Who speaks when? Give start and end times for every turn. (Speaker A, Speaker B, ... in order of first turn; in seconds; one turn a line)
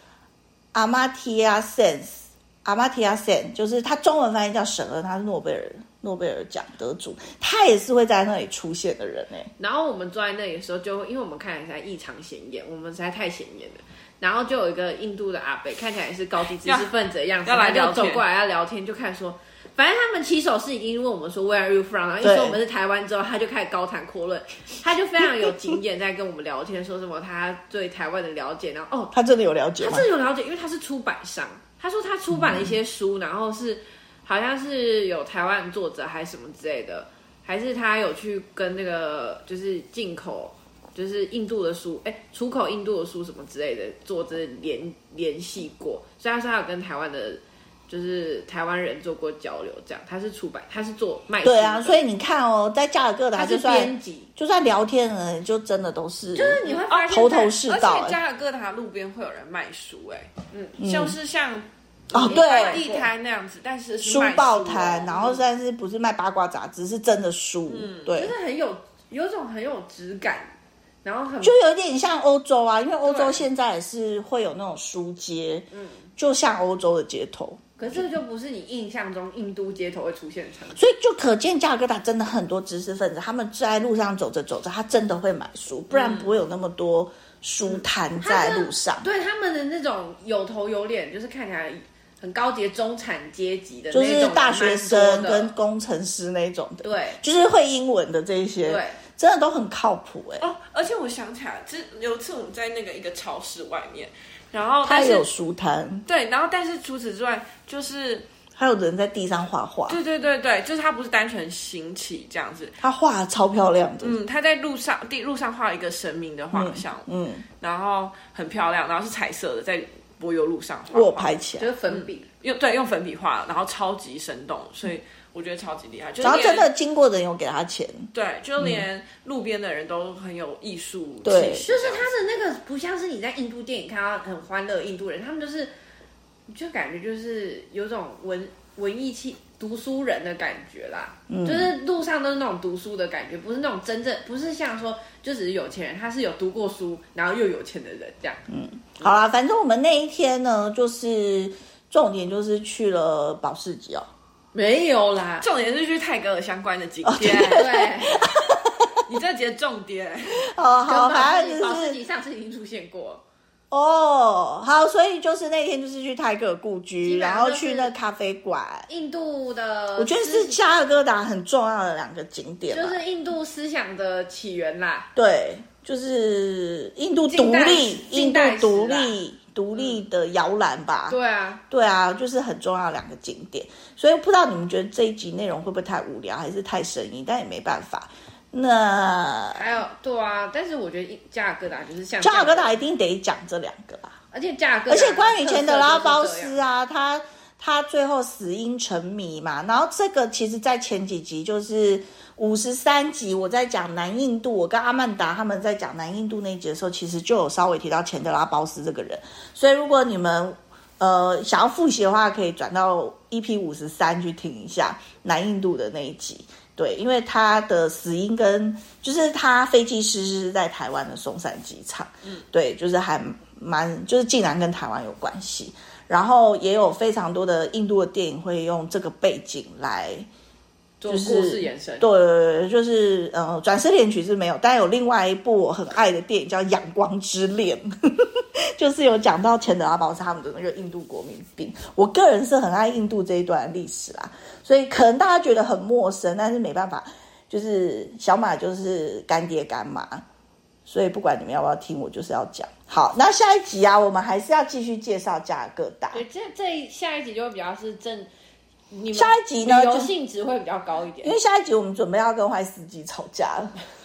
Speaker A: 0.7-9.5
Speaker B: 9.6-29.1
Speaker C: 16.6-16.9
Speaker C: 17.4-18.2
Speaker A: 22.2-22.6
Speaker A: 25.2-25.5
Speaker A: 29.1-30.1
Speaker B: 29.8-52.0
Speaker A: 32.3-32.7
Speaker A: 51.4-58.2
Speaker B: 53.4-54.3
Speaker B: 56.4-57.7
Speaker C: 56.7-65.4
Speaker A: 60.8-61.2
Speaker A: 62.1-62.8
Speaker B: 62.2-63.1
Speaker A: 64.0-68.3
Speaker C: 67.7-68.2
Speaker B: 68.1-71.6
Speaker A: 71.4-78.0
Speaker B: 73.1-73.4
Speaker B: 75.7-76.1
Speaker B: 77.8-80.8
Speaker A: 80.8-89.1
Speaker C: 85.9-86.3
Speaker B: 88.2-95.5
Speaker A: 93.9-100.5
Speaker B: 96.8-97.2
Speaker B: 98.6-99.0
Speaker C: 100.4-105.3
Speaker A: 104.8-106.1
Speaker C: 106.1-108.3
Speaker A: 108.6-110.0
Speaker C: 109.9-112.8
Speaker A: 112.8-114.2
Speaker C: 114.0-117.1
Speaker A: 116.5-117.5
Speaker C: 117.6-121.4
Speaker A: 120.9-121.7
Speaker B: 121.6-122.3
Speaker C: 121.9-126.7
Speaker A: 126.2-128.9
Speaker C: 128.1-132.1
Speaker A: 131.2-131.7
Speaker B: 131.6-135.7
Speaker B: 136.5-148.4
Speaker A: 141.3-141.7
Speaker A: 148.5-154.1
Speaker B: 154.5-155.5
Speaker C: 155.4-157.7
Speaker A: 157.0-159.0
Speaker B: 157.3-158.2
Speaker C: 159.0-160.5
Speaker A: 160.4-162.0
Speaker B: 160.9-163.2
Speaker A: 163.7-168.9
Speaker B: 167.0-167.9
Speaker B: 168.9-170.6
Speaker A: 170.0-173.0
Speaker B: 172.7-175.1
Speaker A: 175.2-181.2
Speaker B: 177.3-179.2
Speaker B: 181.1-181.6
Speaker A: 181.7-189.7
Speaker B: 189.6-192.8
Speaker A: 192.2-194.2
Speaker B: 194.3-196.6
Speaker A: 194.9-230.3
Speaker B: 231.0-232.1
Speaker A: 231.1-250.2
Speaker A: 250.9-256.2
Speaker B: 256.1-258.3
Speaker B: 258.9-261.3
Speaker A: 259.1-260.1
Speaker A: 261.2-263.7